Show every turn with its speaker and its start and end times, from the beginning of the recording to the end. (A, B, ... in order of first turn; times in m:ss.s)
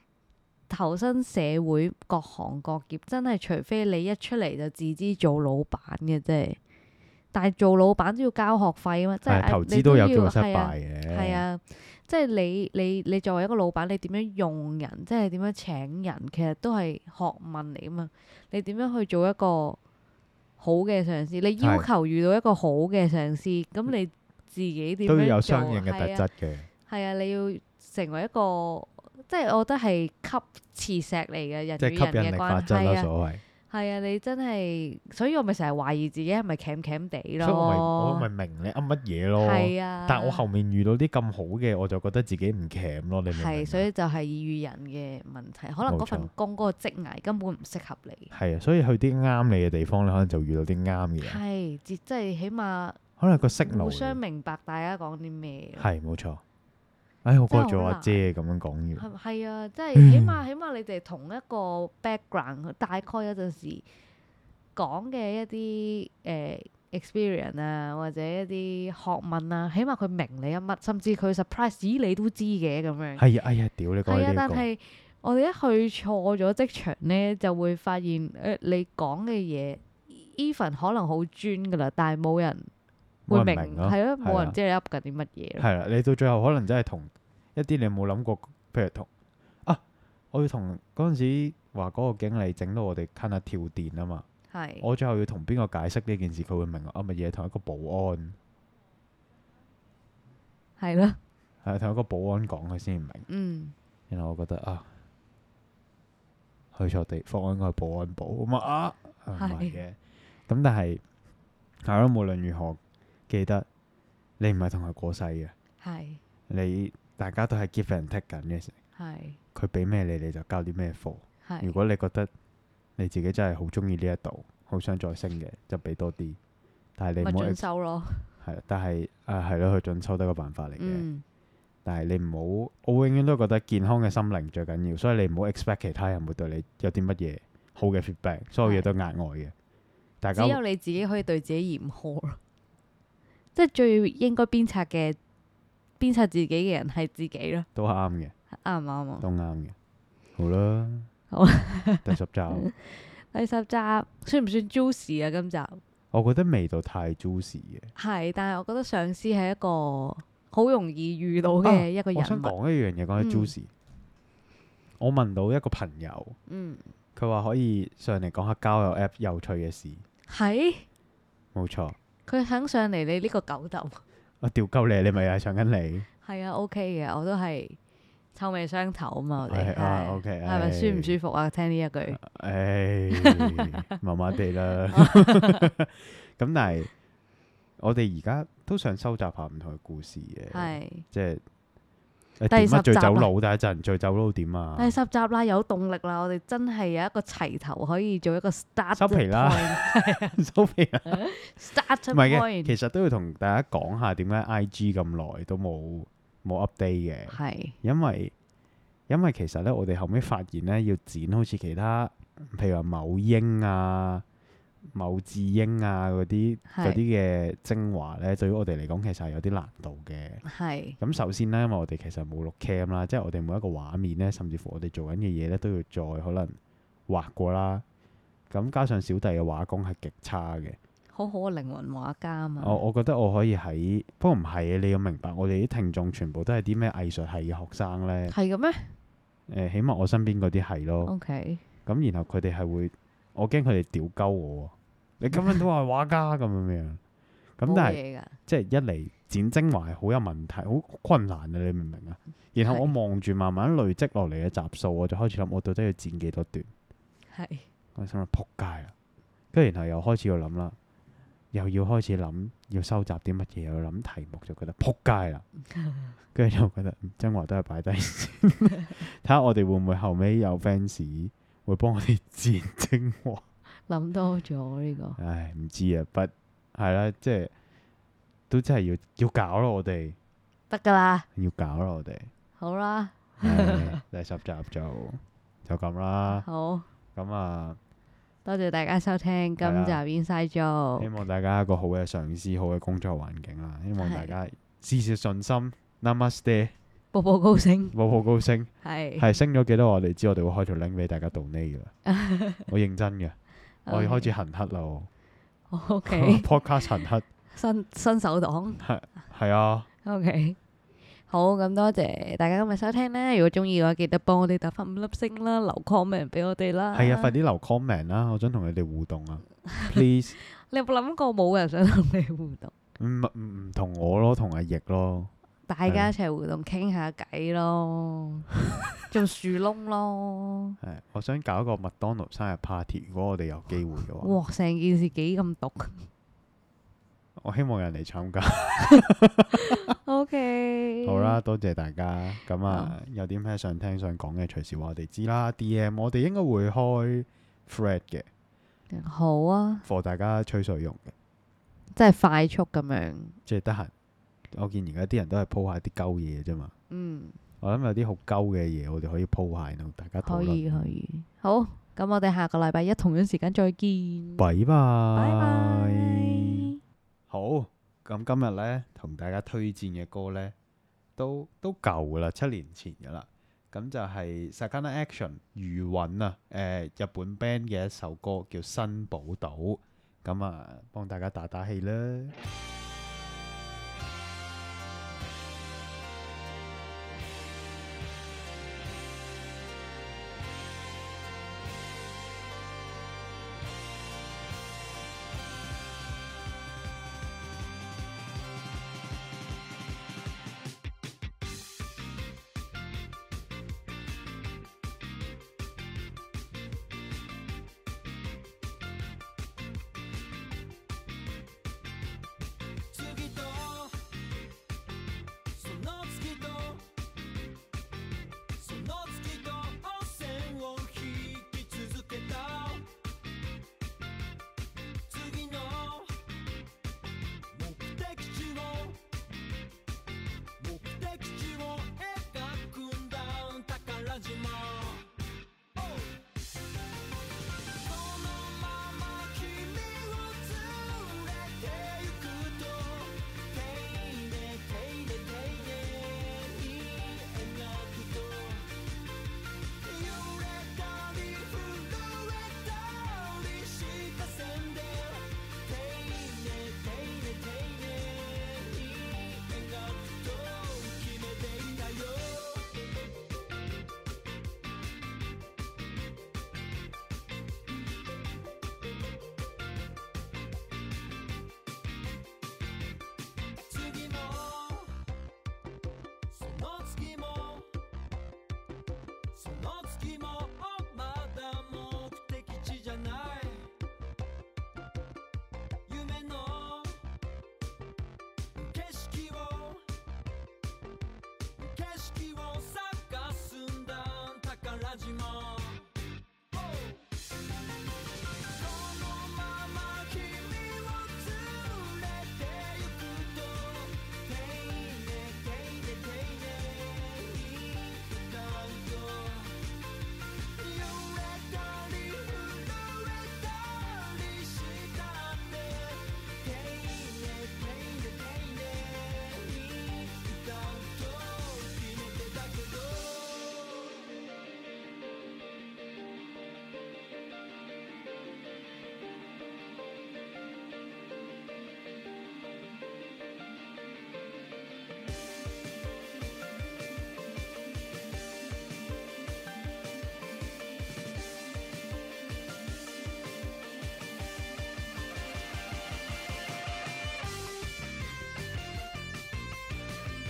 0:00.7-0:06.6 A
0:07.3-0:19.8 A
0:09.3-0:11.4 B
0:20.6-0:26.2 A
0:21.6-0:21.9 B
0:25.1-0:26.7 B
0:26.9-0:33.1 A
0:31.8-0:33.4 B
0:33.7-0:38.3 A
0:37.4-0:43.9 B
0:39.4-0:40.4 A
0:43.3-0:48.3 A
0:45.8-0:46.3 B
0:48.3-0:51.4 B
0:51.2-0:53.0 A
0:53.2-0:54.2 B
0:53.6-0:55.9 A
0:55.8-0:56.4 B
0:57.2-0:59.1 B
0:57.5-0:58.2 A
0:59.0-1:03.8 A
1:00.0-1:00.4 B
1:04.8-1:13.2 A
1:13.2-1:14.7 B
1:14.1-1:22.7 A
1:23.3-1:24.6 B
1:23.3-1:25.7 A
1:25.6-1:29.1 B
1:30.3-1:34.3 B
1:34.5-1:34.9 A
1:34.8-1:38.4 B
1:40.8-1:41.2 A
1:41.6-1:43.3 B
1:43.3-1:43.8 A
1:44.1-1:44.9 B
1:46.7-1:50.0 B
1:49.4-1:49.8 A
1:50.5-1:51.0 B
1:51.8-1:53.7 B
1:54.4-1:55.5 B
1:55.8-1:56.2 A
1:56.5-1:58.8 B
1:59.0-1:59.4 A
1:59.5-2:02.3 B
2:01.4-2:01.8 A
2:03.0-2:06.4 B
2:07.0-2:07.6 B
2:07.2-2:08.3 A
2:08.4-2:11.1 B
2:10.8-2:11.2 A
2:11.8-2:19.5 B
2:18.6-2:18.9 A
2:20.2-2:20.6 B
2:20.4-2:22.4 A
2:23.6-2:25.2 A
2:26.0-2:27.7 A
2:27.8-2:28.3 B
2:28.5-2:29.3 A
2:29.2-2:29.8 B
2:30.4-2:31.1 B
2:31.3-2:35.8 A
2:32.0-2:32.7 B
2:36.1-2:37.9 B
2:38.0-2:42.6 A
2:41.6-2:43.7 B
2:43.2-2:43.5 A
2:45.0-2:46.4 B
2:46.5-2:46.9 A
2:47.2-2:50.0 B
2:50.3-2:50.9 A
2:51.5-2:52.0 B
2:52.3-2:54.0 A
2:54.4-2:56.1 B
2:56.2-2:57.8 A
2:58.3-3:02.2 A
2:59.4-3:01.2 B
3:02.1-3:06.9 B
3:03.1-3:03.7 A
3:04.9-3:05.7 A
3:07.8-3:11.4 B
3:10.5-3:11.0 A
3:12.4-3:15.0 B
3:12.5-3:13.3 A
3:14.8-3:20.4 A
3:18.9-3:21.4 B
3:21.1-3:22.8 A
3:22.1-3:28.3 B
3:27.3-3:27.8 A
3:29.1-3:34.2 B
3:34.9-3:40.4 B
3:36.7-3:37.0 A
3:40.4-3:41.0 A
3:41.0-3:47.8 B
3:48.5-3:50.8 B
3:51.1-3:52.8 A
3:52.6-3:58.4 B
3:58.3-3:59.0 A
3:59.5-4:01.1 B
4:01.0-4:01.6 A
4:01.9-4:07.0 B
4:05.3-4:05.6 A
4:07.6-4:16.7 B
4:07.6-4:08.4 A
4:12.6-4:12.9 A
4:17.3-4:17.7 A
4:18.0-4:18.9 B
4:19.5-4:20.8 B
4:21.5-4:25.5 B
4:25.7-4:26.2 A
4:26.3-4:33.4 B
4:33.9-4:35.2 A
4:35.2-4:37.5 B
4:38.5-4:40.2 B
4:40.7-4:41.3 A
4:41.4-4:42.3 B
4:42.6-4:44.0 A
4:43.4-4:46.5 B
4:46.3-4:46.9 A
4:47.2-4:47.8 B
4:48.4-4:51.2 A
4:49.6-4:50.0 B
4:51.0-4:56.8 B
4:54.0-4:54.3 A
4:57.1-4:58.0 A
4:57.9-5:01.9 B
4:58.8-4:59.3 A
5:02.0-5:02.7 A
5:02.7-5:03.4 B
5:03.9-5:04.3 A
5:03.9-5:05.1 B
5:05.7-5:07.0 A
5:06.1-5:07.2 B
5:07.5-5:08.8 A
5:08.8-5:09.9 B
5:10.0-5:10.6 A
5:11.3-5:17.4 A
5:16.9-5:20.4 B
5:19.7-5:22.7 A
5:23.0-5:25.3 B
5:25.7-5:28.5 A
5:25.9-5:26.1 B
5:29.1-5:30.8 A
5:30.8-5:34.3 B
5:34.2-5:36.1 A
5:37.4-5:39.9 B
5:39.7-5:41.4 A
5:41.0-5:48.3 B
5:42.7-5:43.0 A
5:48.9-5:49.8 A
5:49.8-5:51.1 B
5:51.9-5:53.4 A
5:53.5-5:53.9 B
5:54.5-5:56.7 B
5:56.9-5:57.4 A
5:57.6-6:00.8 B
6:00.2-6:04.5 A
6:04.4-6:06.6 B
6:05.2-6:06.7 A
6:07.3-6:10.5 B
6:11.2-6:22.4 B
6:52.9-6:54.0 C
6:55.5-6:56.9 C
6:58.6-7:02.9 C
7:05.1-7:06.1 C
7:07.5-7:09.0 C
7:10.6-7:15.1 C
7:15.8-7:16.2 C
7:17.8-7:28.7 C
7:29.8-7:42.7 C
7:53.6-7:54.9 C
7:56.3-7:57.7 C
7:59.3-8:03.7 C
8:05.9-8:07.0 C
8:08.6-8:09.8 C
8:11.6-8:15.9 C
8:16.5-8:17.1 C
8:18.4-8:29.7 C
8:30.5-8:44.1 C